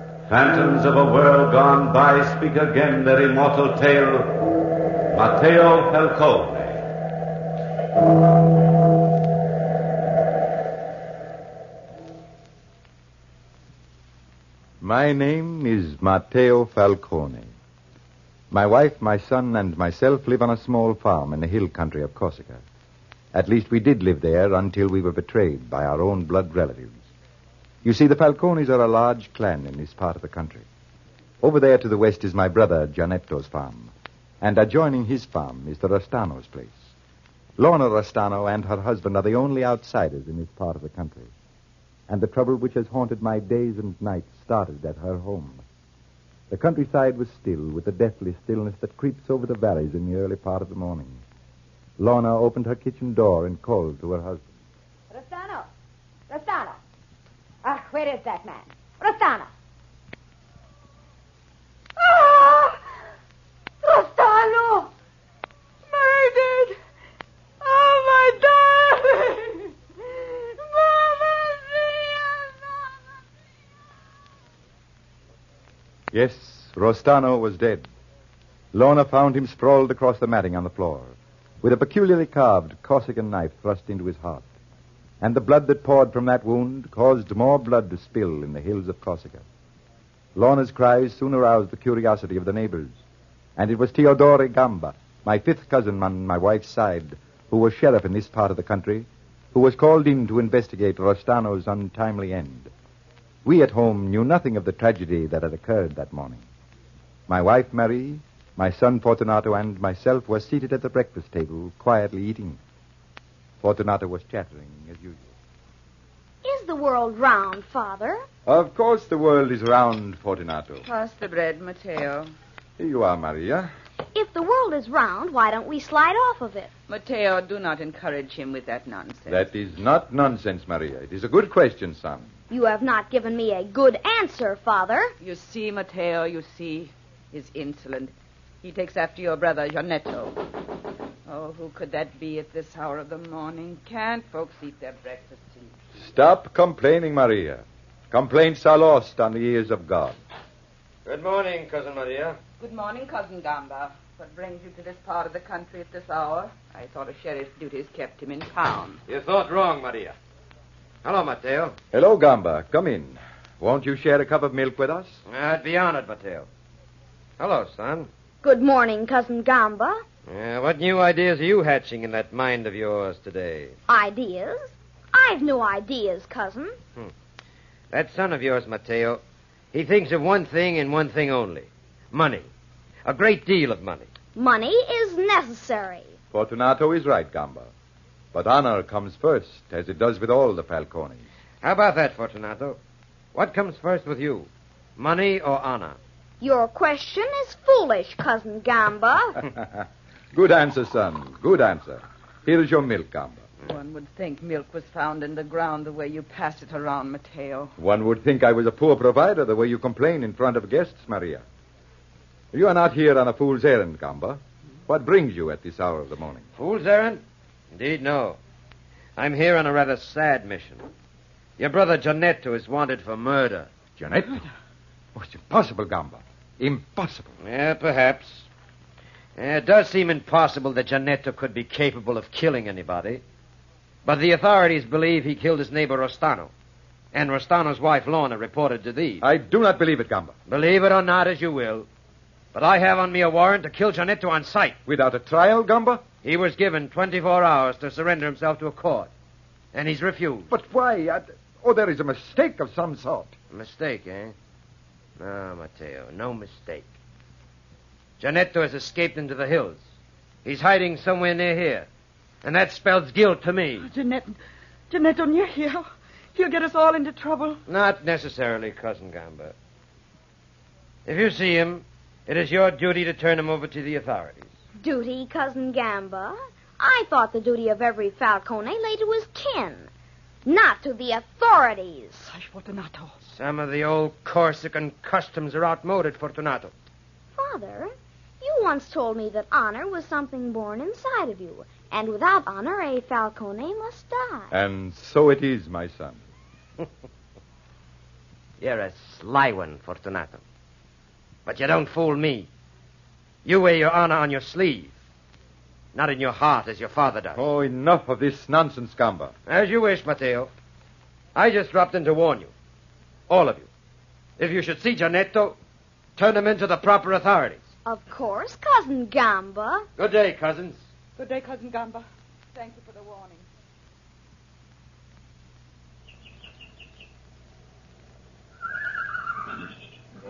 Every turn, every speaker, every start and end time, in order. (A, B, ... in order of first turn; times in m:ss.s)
0:00.3-0:04.4 A
0:05.1-0:06.8 A
0:14.8-0:17.5 B
0:18.5-0:22.6 B
0:23.3-0:27.0 B
0:27.8-0:30.6 B
0:31.4-0:36.8 B
0:37.6-0:41.3 B
0:42.1-0:45.6 B
0:46.5-0:51.2 B
0:52.0-0:54.5 B
0:55.1-0:55.7 C
0:56.3-0:56.7 C
0:57.6-0:59.4 C
1:02.0-1:02.7 D
1:03.8-1:04.9 D
1:05.9-1:06.8 D
1:07.6-1:12.5 D
1:16.1-1:17.8 B
1:18.7-1:24.5 B
1:25.2-1:29.4 B
1:30.3-1:33.0 B
1:33.6-1:42.7 B
1:43.4-1:46.4 B
1:47.3-1:52.6 B
1:53.6-1:55.3 B
1:56.4-1:58.2 C
1:58.4-2:00.8 B
2:00.8-2:02.3 E
2:02.8-2:03.7 B
2:04.1-2:06.7 C
2:06.9-2:09.5 E
2:09.3-2:12.3 B
2:12.5-2:15.1 C
2:15.2-2:20.4 E
2:21.3-2:25.7 E
2:26.0-2:30.2 B
2:31.0-2:32.4 F
2:32.6-2:39.0 E
2:39.1-2:40.1 F
2:41.0-2:41.8 F
2:41.9-2:45.2 B
2:45.3-2:46.5 F
2:47.4-2:48.1 F
2:48.4-2:50.0 C
2:50.3-2:53.7 F
2:53.9-2:56.8 C
2:57.9-2:59.2 F
2:59.7-3:02.4 F
3:03.0-3:04.1 F
3:04.4-3:06.1 C
3:06.3-3:07.7 B
3:08.3-3:11.2 B
3:11.6-3:12.8 F
3:13.3-3:16.0 F
3:16.4-3:19.5 C
3:20.3-3:23.4 B
3:23.6-3:27.7 E
3:27.8-3:31.4 B
3:32.5-3:36.4 B
3:36.6-3:37.2 F
3:37.7-3:38.4 F
3:39.2-3:40.8 F
3:41.6-3:43.7 F
3:44.0-3:44.4 B
3:45.1-3:47.3 B
3:47.4-3:48.5 F
3:49.4-3:53.2 F
3:54.0-3:56.5 F
3:57.1-3:59.2 F
3:59.2-4:00.3 B
4:00.5-4:01.9 F
4:02.5-4:04.8 F
4:04.8-4:06.0 B
4:06.2-4:09.1 F
4:09.7-4:10.5 F
4:10.5-4:13.3 B
4:13.5-4:14.3 F
4:15.2-4:16.9 F
4:18.2-4:19.8 F
4:20.4-4:21.9 F
4:22.4-4:23.9 F
4:23.8-4:24.4 E
4:24.9-4:27.6 E
4:27.7-4:29.5 F
4:31.0-4:34.5 F
4:34.8-4:39.9 C
4:40.4-4:42.3 C
4:42.3-4:43.1 E
4:43.3-4:46.7 F
4:47.3-4:54.5 C
4:54.5-4:56.2 B
4:58.6-5:00.4 F
5:01.4-5:02.5 F
5:03.4-5:04.9 F
5:05.9-5:07.4 F
5:07.4-5:09.3 B
5:09.5-5:10.5 F
5:11.3-5:12.5 F
5:13.3-5:13.7 F
5:14.4-5:15.6 F
5:16.2-5:17.6 F
5:17.8-5:19.8 C
5:20.0-5:20.8 F
5:21.2-5:23.4 E